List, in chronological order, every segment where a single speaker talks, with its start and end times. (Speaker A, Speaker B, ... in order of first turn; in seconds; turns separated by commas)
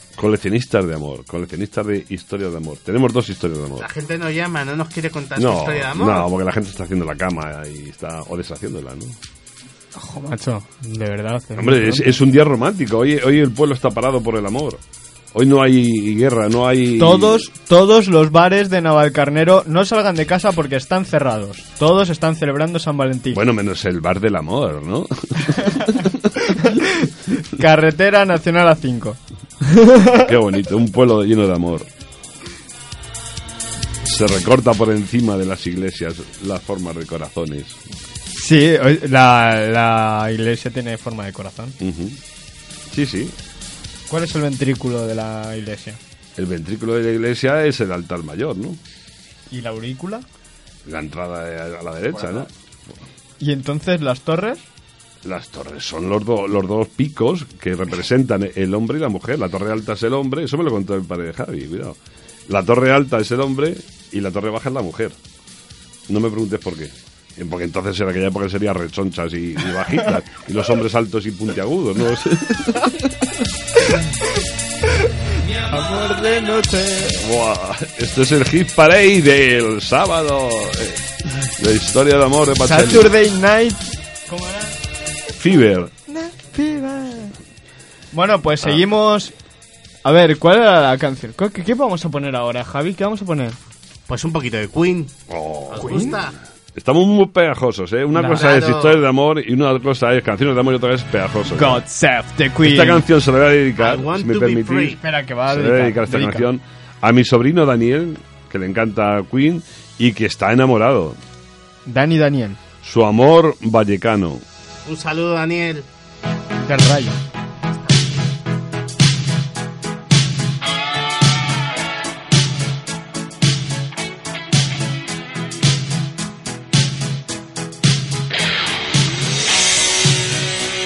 Speaker A: 0.1-3.9, Speaker B: 3.8-6.3, Speaker A: 5.3-9.2, Speaker C: 9.9-12.2, Speaker A: 11.6-14.8, Speaker A: 15.3-17.5, Speaker C: 17.0-23.4, Speaker A: 23.3-26.3, Speaker C: 25.6-30.3, Speaker A: 30.2-31.9, Speaker A: 34.0-37.8, Speaker C: 38.3-41.8, Speaker A: 41.8-42.2, Speaker A: 42.9-43.4, Speaker C: 44.1-46.0, Speaker A: 46.4-48.8, Speaker C: 49.5-50.2, Speaker A: 50.8-53.0, Speaker C: 53.4-54.6, Speaker A: 55.2-65.2, Speaker A: 66.1-73.3, Speaker C: 74.9-77.2, Speaker A: 77.2-83.1, Speaker C: 82.6-84.8, Speaker A: 85.3-85.9, Speaker C: 86.1-87.4, Speaker C: 88.1-89.3, Speaker C: 90.0-93.6, Speaker B: 94.1-95.2, Speaker A: 95.3-101.8, Speaker B: 95.7-96.4, Speaker C: 95.8-96.2, Speaker C: 98.1-98.6, Speaker B: 98.3-99.0, Speaker C: 101.5-103.0, Speaker A: 102.6-111.2, Speaker B: 103.8-105.0, Speaker C: 105.0-106.5, Speaker C: 111.8-112.6, Speaker A: 112.8-114.4, Speaker B: 114.8-115.9, Speaker C: 116.6-117.2, Speaker B: 117.7-118.2